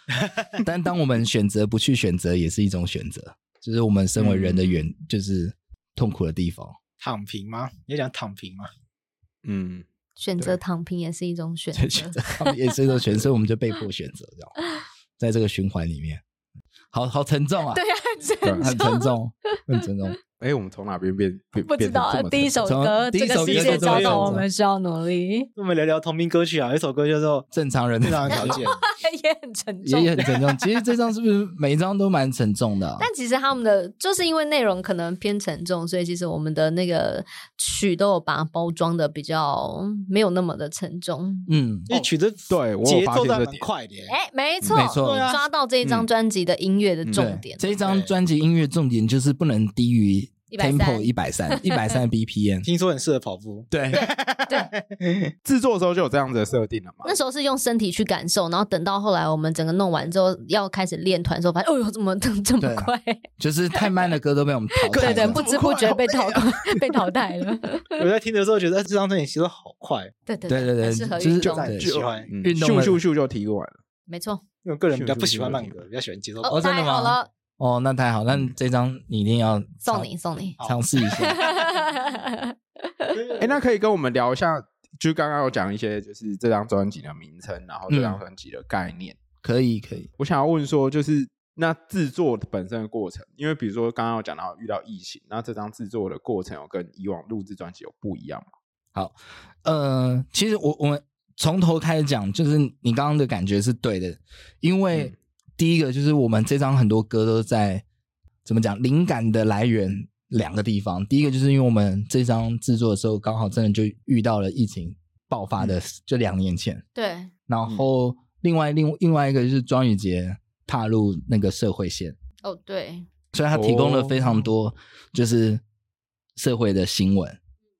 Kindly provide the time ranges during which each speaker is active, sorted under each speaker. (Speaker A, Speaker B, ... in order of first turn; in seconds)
Speaker A: 0.5-6.8, 12.2-14.6, 15.2-16.2, 16.9-17.8, 18.6-20.2, 22.6-24.4, 27.5-28.6, 29.8-33.1, 41.5-41.9, 44.7-45.3, 47.1-52.7, 53.7-54.1, 62.6-65.4, 70.5-73.0, 76.5-80.1, 80.6-81.4, 87.9-88.2, 89.4-90.1, 98.9-107.8, 108.5-116.8, 117.5-122.2, 123.3-125.6, 126.4-127.4
Speaker B: 4.2-4.9, 9.4-9.8, 18.4-18.7, 20.4-22.7, 42.0-43.6, 55.4-57.1, 64.9-66.8, 71.4-73.8, 74.9-75.8, 83.4-89.2, 90.2-98.4, 123.5-124.5
Speaker C: 7.0-8.7, 23.3-24.4, 25.6-27.5, 28.0-28.8, 41.9-44.1, 45.0-45.4, 47.8-48.1, 52.6-55.3, 68.0-70.1, 71.5-72.3, 74.6-76.6, 83.1-83.5
Speaker D: 10.2-12.5, 17.7-19.1, 21.6-25.5, 28.3-30.8, 33.0-41.5, 44.1-47.7, 50.5-52.0, 57.0-63.2, 64.8-68.0, 70.3-71.7, 74.1-74.4, 76.4-77.3, 79.8-80.6, 81.1-83.3, 116.9-117.3, 122.4-123.1